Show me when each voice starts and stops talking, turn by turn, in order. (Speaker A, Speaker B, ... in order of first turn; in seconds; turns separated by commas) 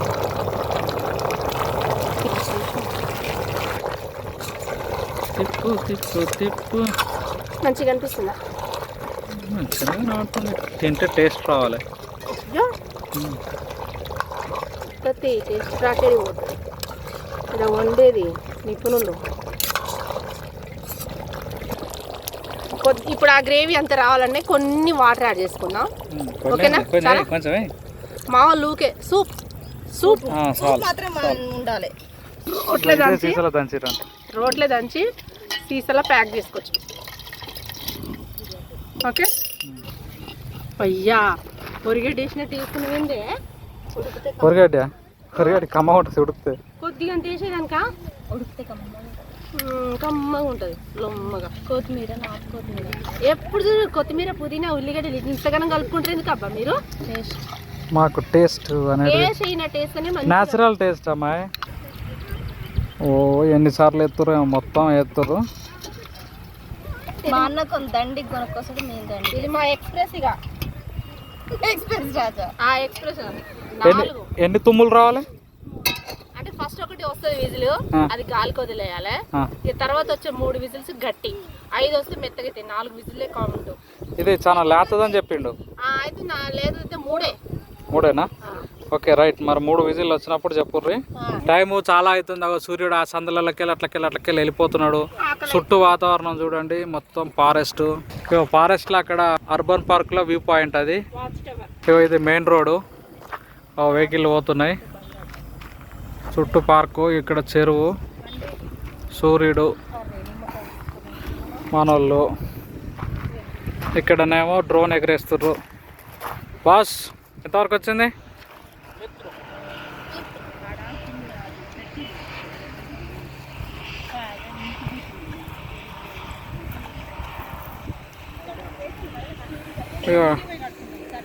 Speaker A: 2.2-2.9, Speaker B: 5.3-6.9, Speaker A: 7.6-8.4, Speaker B: 9.3-11.8, Speaker A: 12.3-12.7, Speaker B: 13.1-13.4, Speaker A: 15.0-16.6, Speaker A: 17.5-19.2, Speaker A: 22.8-25.9, Speaker B: 26.1-27.7, Speaker A: 26.5-27.3, Speaker A: 28.3-29.3, Speaker A: 29.9-30.3, Speaker C: 30.0-31.9, Speaker B: 30.3-31.4, Speaker A: 32.5-33.4, Speaker B: 32.7-34.0, Speaker A: 34.3-35.0, Speaker A: 35.7-36.8, Speaker A: 40.8-41.3, Speaker A: 41.8-43.2, Speaker C: 44.0-44.6, Speaker B: 44.4-46.6, Speaker A: 46.8-47.8, Speaker C: 48.3-49.4, Speaker A: 49.5-51.5, Speaker C: 51.5-53.0, Speaker A: 53.2-56.8, Speaker C: 57.0-57.4, Speaker B: 57.9-59.3, Speaker A: 59.0-60.6, Speaker B: 60.2-61.5, Speaker B: 63.0-65.4, Speaker A: 67.2-67.5, Speaker C: 67.2-69.5, Speaker A: 69.3-70.4, Speaker C: 71.6-72.5, Speaker A: 72.6-74.3, Speaker B: 73.8-75.3, Speaker A: 76.3-83.8, Speaker B: 84.2-85.5, Speaker A: 85.8-87.3, Speaker B: 87.9-88.3, Speaker B: 88.9-101.0, Speaker A: 91.2-91.4, Speaker A: 95.2-95.8, Speaker A: 101.1-101.7, Speaker B: 101.8-102.8, Speaker B: 103.8-104.8, Speaker A: 103.9-105.3, Speaker B: 106.3-107.9, Speaker B: 109.1-109.7, Speaker A: 110.2-111.5, Speaker B: 111.7-112.2, Speaker B: 113.9-115.6, Speaker B: 116.6-118.1, Speaker A: 121.3-122.1, Speaker B: 130.0-130.4